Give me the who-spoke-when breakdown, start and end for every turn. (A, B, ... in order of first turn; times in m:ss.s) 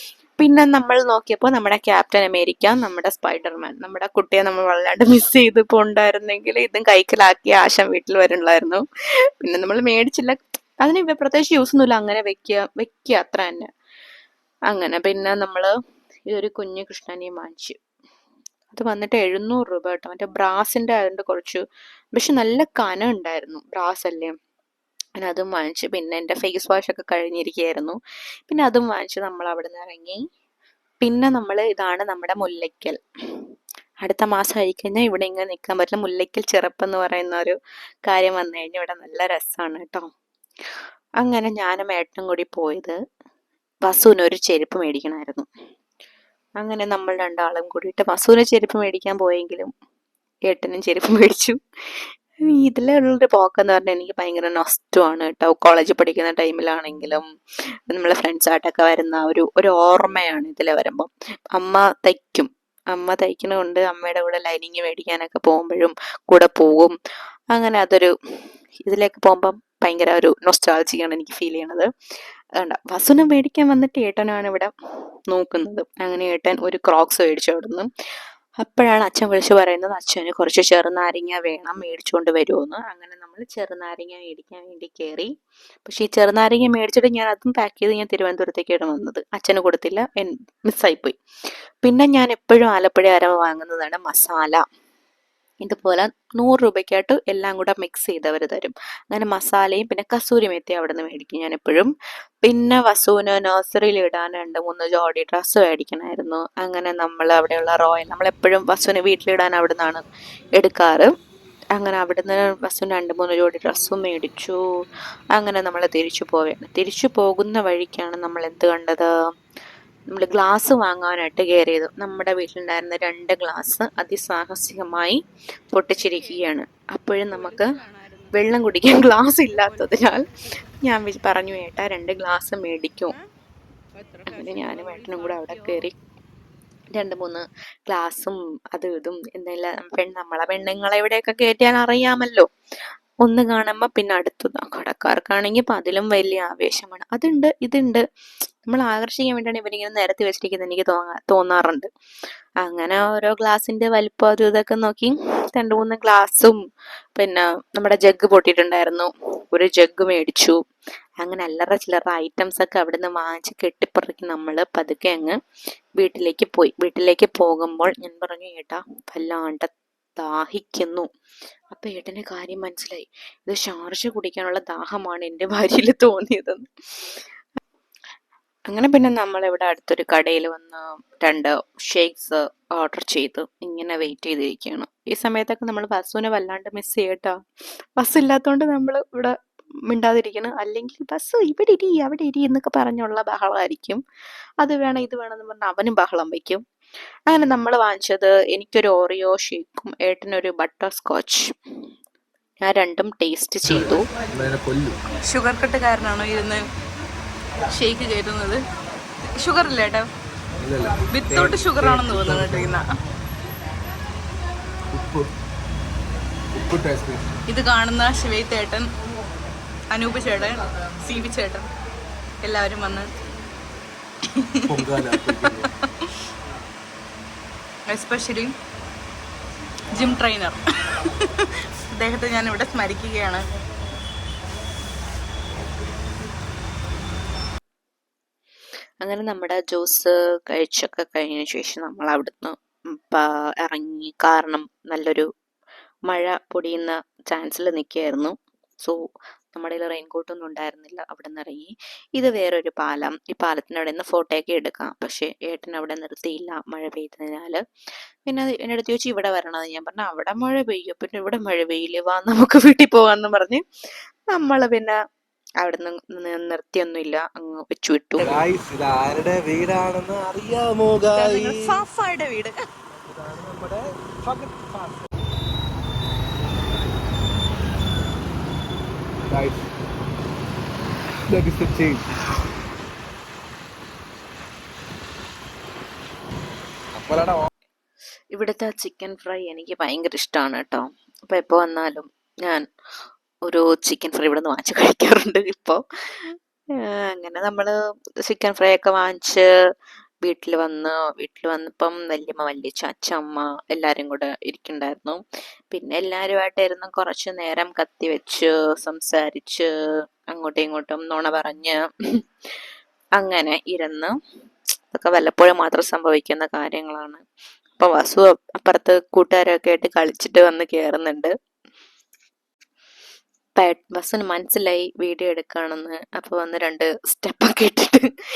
0:00.4-0:08.8 A
0:09.4-0:13.7 A
0:14.7-0:15.7 A
0:16.3-0:17.8 A
0:18.7-0:21.6 A
0:22.2-0:24.4 A
0:25.2-0:28.0 A
0:28.5-0:30.2 A
0:31.0-0:33.0 A
0:34.0-0:37.6 A
0:38.1-0:40.1 A
0:41.2-0:43.0 A
0:43.9-0:45.5 A
0:46.6-0:49.7 A
0:50.5-0:51.6 A
0:52.4-0:57.2 A
0:57.9-1:07.0 A
1:07.5-1:08.1 A
1:08.9-1:11.9 A
1:12.6-1:14.7 A
1:15.3-1:17.9 A
1:18.6-1:25.3 A
1:25.8-1:31.2 A
1:31.8-1:34.6 A
1:35.6-1:41.9 A
1:42.4-1:50.0 A
1:50.6-1:51.1 A
1:51.8-1:54.6 A
1:55.4-1:59.1 A
2:00.1-2:05.2 A
2:05.7-2:07.8 A
2:06.0-2:06.5 B
2:07.2-2:08.5 B
2:08.3-2:10.3 A
2:09.3-2:10.2 B
2:10.8-2:13.1 A
2:14.0-2:15.9 B
2:14.3-2:16.0 A
2:16.9-2:22.5 A
2:23.2-2:28.0 A
2:28.6-2:31.9 A
2:32.6-2:36.6 A
2:37.2-2:40.6 A
2:41.2-2:45.4 A
2:46.0-2:51.1 A
2:51.7-2:57.2 A
2:58.7-3:07.4 A
3:08.0-3:09.4 A
3:09.9-3:14.0 A
3:14.6-3:16.6 A
3:17.3-3:21.5 A
3:22.6-3:24.1 A
3:23.6-3:25.0 C
3:25.2-3:26.6 B
3:27.7-3:28.6 B
3:29.4-3:30.1 B
3:30.6-3:32.8 C
3:31.1-3:32.9 B
3:34.9-3:35.3 C
3:36.5-3:37.3 C
3:37.5-3:38.9 B
3:39.9-3:41.7 B
3:42.4-3:43.1 B
3:44.3-3:46.1 B
3:44.7-3:45.7 C
3:47.9-3:48.6 B
3:49.9-3:53.5 B
3:59.0-4:05.3 A
4:06.1-4:09.0 A
4:09.5-4:17.6 A
4:18.2-4:23.6 A
4:24.3-4:25.0 A
4:25.6-4:28.3 A
4:28.2-4:31.8 C
4:31.1-4:32.6 B
4:33.0-4:35.0 C
4:39.3-4:39.6 C
4:41.3-4:42.0 C
4:47.0-4:47.5 C
4:48.3-4:52.6 A
4:53.5-4:56.4 A
4:57.1-4:57.7 A
4:58.2-4:59.5 A
5:00.2-5:09.7 A
5:10.3-5:12.2 A
5:13.2-5:14.2 A
5:14.9-5:17.2 A
5:17.8-5:21.3 A
5:23.6-5:28.1 A